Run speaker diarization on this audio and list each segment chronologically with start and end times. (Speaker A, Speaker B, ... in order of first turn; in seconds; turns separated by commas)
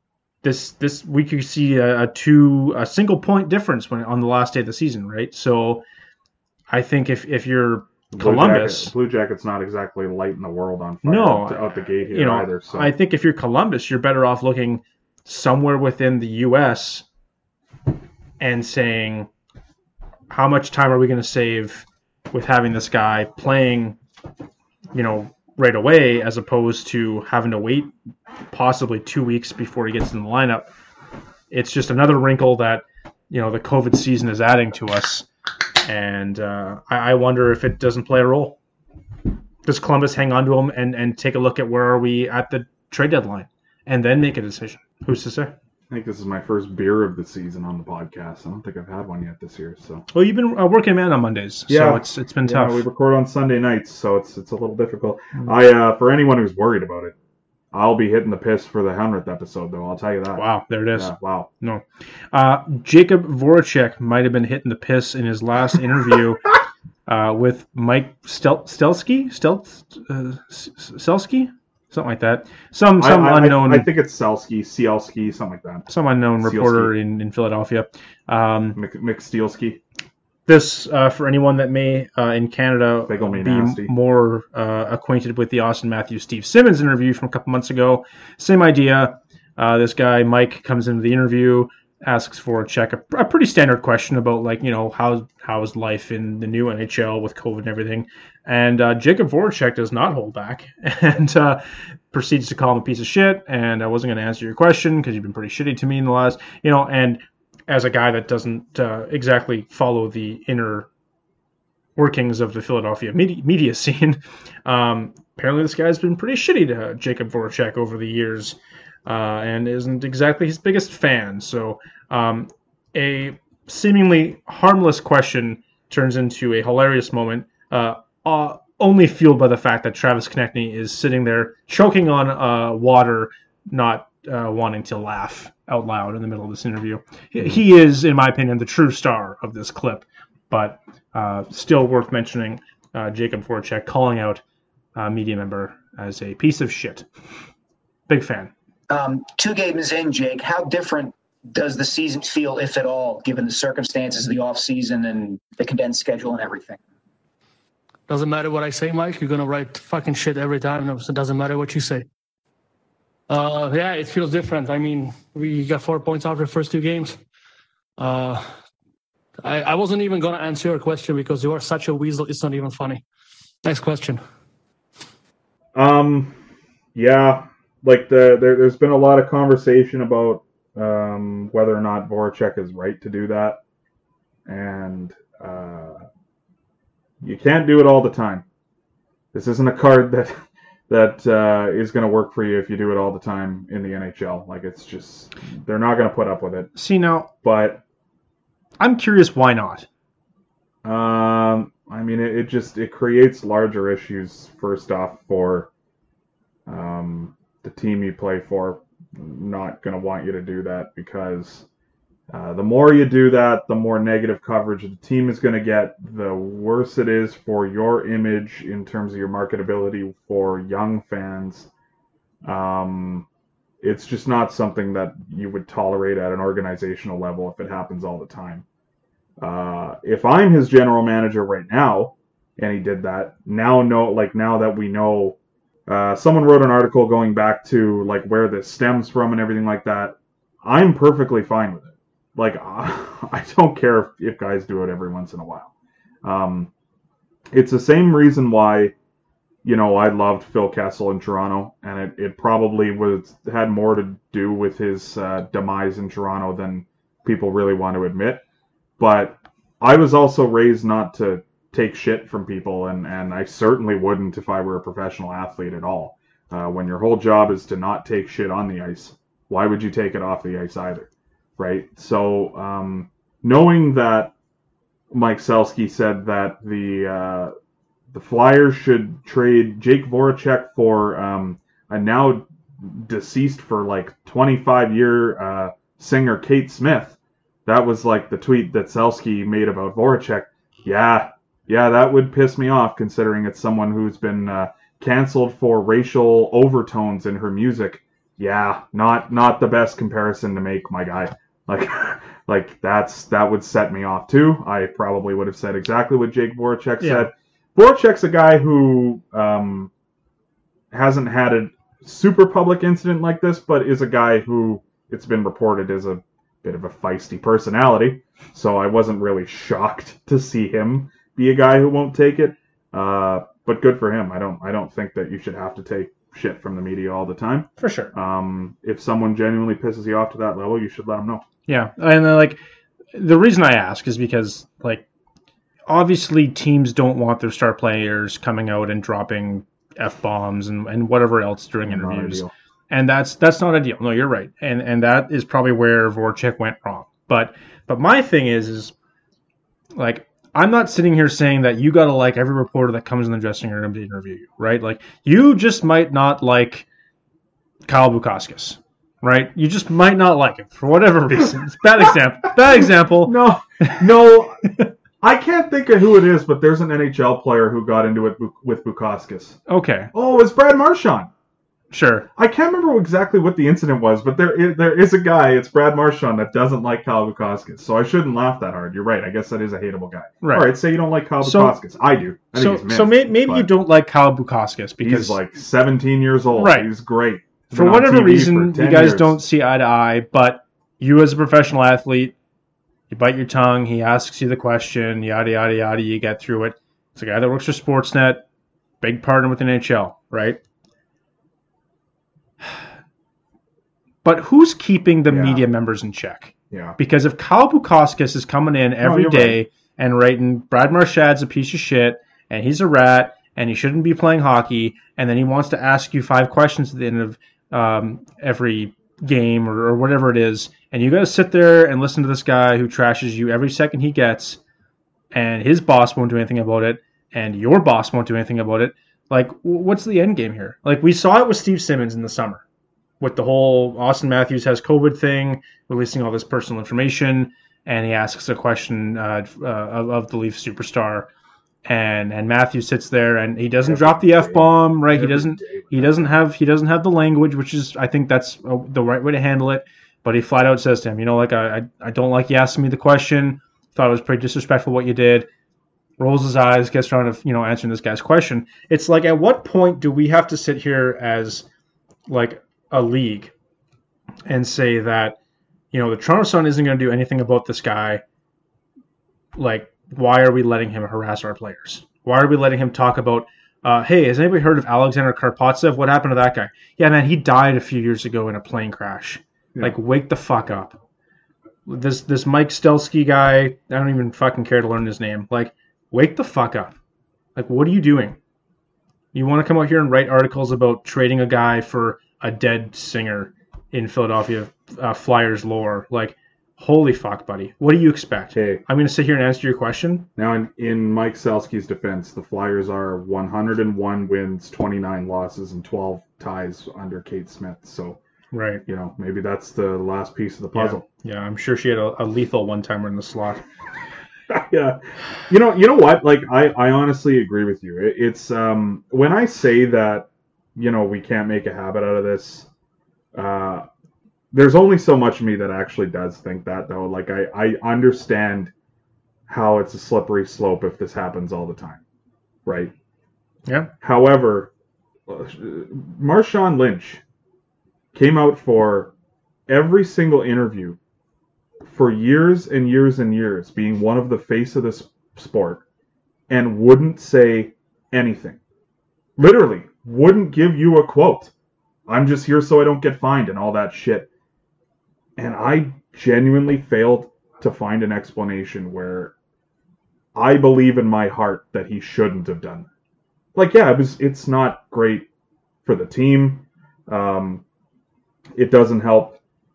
Speaker A: 0.4-5.8, Speaker A: 6.7-8.9, Speaker B: 8.1-12.9, Speaker A: 11.0-17.1, Speaker A: 18.4-19.3, Speaker A: 20.3-24.0, Speaker A: 24.9-27.9, Speaker A: 28.5-30.7, Speaker A: 31.5-35.3, Speaker A: 35.8-38.6, Speaker A: 39.6-45.5, Speaker B: 45.9-50.0, Speaker A: 50.1-52.9, Speaker B: 51.7-57.1, Speaker B: 57.7-61.5, Speaker A: 60.4-66.5, Speaker A: 67.1-73.9, Speaker B: 73.0-77.0, Speaker A: 75.9-78.8, Speaker B: 78.8-79.8, Speaker A: 80.5-110.9, Speaker B: 83.1-83.9, Speaker A: 112.0-144.4, Speaker A: 144.9-147.1, Speaker A: 148.1-148.5, Speaker C: 148.9-156.8, Speaker D: 158.1-162.1, Speaker D: 163.3-167.2, Speaker D: 168.0-168.4, Speaker D: 169.4-173.0, Speaker D: 173.6-174.2, Speaker B: 175.8-176.4, Speaker B: 176.9-183.6, Speaker B: 184.5-186.0, Speaker B: 187.2-188.4, Speaker B: 189.3-190.4, Speaker B: 190.9-196.7, Speaker A: 196.8-197.3, Speaker B: 197.4-197.8, Speaker A: 198.8-199.9, Speaker B: 200.8-205.7, Speaker B: 206.7-211.7, Speaker B: 212.3-221.7, Speaker B: 222.4-223.3, Speaker B: 223.8-228.7, Speaker B: 229.4-245.7, Speaker B: 246.2-246.7, Speaker B: 247.5-248.9, Speaker B: 249.6-258.4, Speaker B: 259.0-274.3, Speaker B: 275.1-277.5, Speaker B: 278.1-309.9, Speaker A: 307.0-307.3, Speaker B: 310.9-331.4, Speaker A: 327.8-328.1, Speaker A: 331.7-332.6, Speaker A: 333.1-335.1, Speaker A: 335.9-348.9, Speaker B: 341.9-342.5, Speaker A: 349.9-356.9, Speaker A: 357.9-364.0, Speaker B: 362.7-369.6, Speaker A: 369.7-370.1, Speaker B: 370.1-371.3, Speaker A: 371.9-372.3, Speaker B: 372.4-383.7, Speaker A: 380.4-380.8, Speaker A: 381.4-381.8, Speaker A: 382.5-385.4, Speaker B: 385.0-389.4, Speaker A: 386.5-386.9, Speaker A: 387.7-392.4, Speaker A: 393.1-398.4, Speaker A: 399.0-400.6, Speaker A: 404.2-424.6, Speaker B: 405.3-405.6, Speaker B: 406.7-407.0, Speaker B: 409.0-409.6, Speaker A: 425.3-432.6, Speaker A: 433.2-441.3, Speaker A: 441.8-455.5, Speaker B: 443.8-446.4, Speaker A: 456.2-461.7, Speaker A: 462.3-463.5, Speaker A: 464.5-465.4, Speaker A: 465.9-468.2, Speaker A: 469.6-481.0, Speaker A: 481.9-486.9, Speaker A: 487.6-488.4, Speaker A: 489.3-500.3, Speaker B: 498.5-498.8, Speaker B: 500.4-508.2, Speaker A: 508.5-508.8, Speaker B: 508.9-511.0, Speaker A: 510.7-513.6, Speaker B: 514.5-522.7, Speaker B: 523.4-523.9, Speaker B: 524.5-528.7, Speaker B: 529.5-532.0, Speaker B: 532.7-532.9, Speaker A: 533.7-533.9, Speaker B: 534.0-534.7, Speaker B: 535.3-537.2, Speaker B: 538.1-539.1, Speaker B: 539.7-541.0, Speaker B: 541.9-545.8, Speaker B: 546.5-548.6, Speaker B: 549.4-551.5, Speaker B: 552.1-554.3, Speaker B: 555.4-559.3, Speaker B: 560.4-562.9, Speaker B: 563.5-565.3, Speaker B: 565.9-567.6, Speaker B: 568.6-569.4